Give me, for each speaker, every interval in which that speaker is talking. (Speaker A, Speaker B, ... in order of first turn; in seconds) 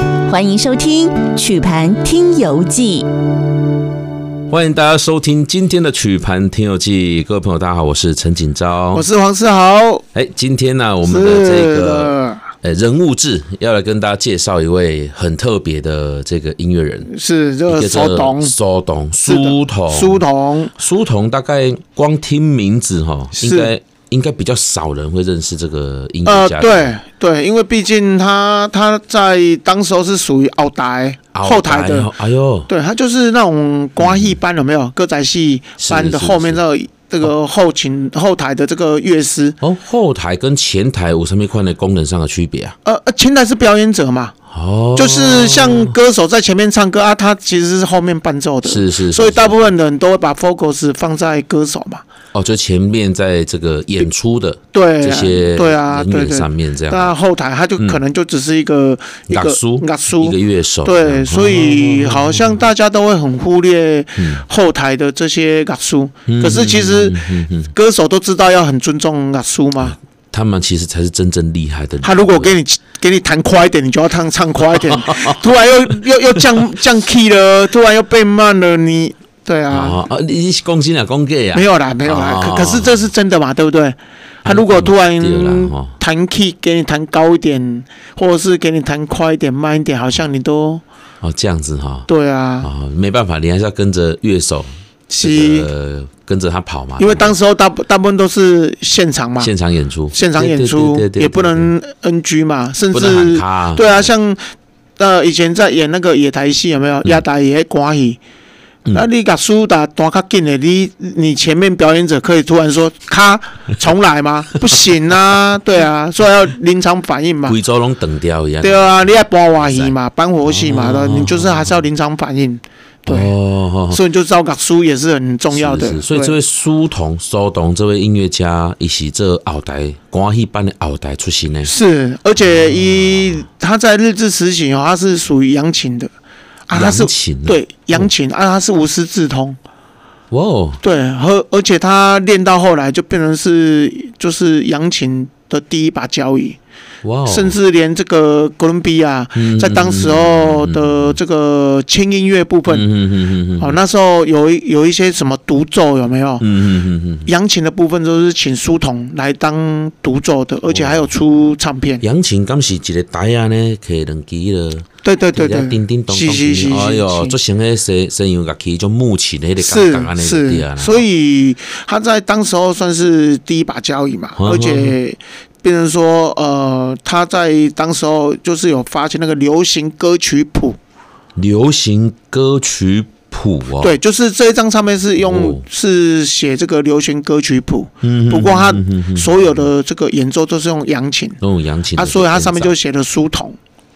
Speaker A: 0.2-3.0
Speaker B: 4.5-9.1, 10.1-17.1, 17.7-26.9, 31.3-32.7, 34.0-34.3, 35.8-36.6, 39.6-42.8, 44.5-45.9, 48.6-49.6, 52.3-57.1, 59.3-62.7, 64.2-64.4, 66.3-67.7, 69.8-72.6, 74.7-75.4, 79.7-83.1, 84.4-85.9, 91.2-92.1, 92.6-97.3, 99.4-101.7, 102.9-104.1, 117.5-121.8, 123.0-124.0, 125.5-131.7, 136.7-138.1, 140.3-140.8, 147.0-147.6, 149.3-151.2, 152.7-153.8, 156.4-157.3, 160.6-161.1, 162.0-171.0, 174.4-175.0, 181.3-184.0, 185.2-185.6, 188.0-189.7, 191.4-192.7
Speaker C: 8.9-10.0, 11.0-12.4, 17.1-18.6, 19.2-20.7, 23.4-23.7, 26.2-32.1, 32.7-39.6, 42.8-44.3, 44.9-52.0, 54.7-70.0, 72.0-80.0, 81.5-90.8, 92.1-92.7, 95.1-95.7, 97.0-99.5, 100.1-104.4, 105.0-108.2, 108.9-117.6, 118.6-123.3, 123.9-126.4, 131.6-136.1, 136.7-139.6, 140.8-146.6, 147.2-152.9, 153.6-156.4, 157.2-162.0, 165.0-167.3, 169.6-180.8, 183.8-191.4, 191.9-193.6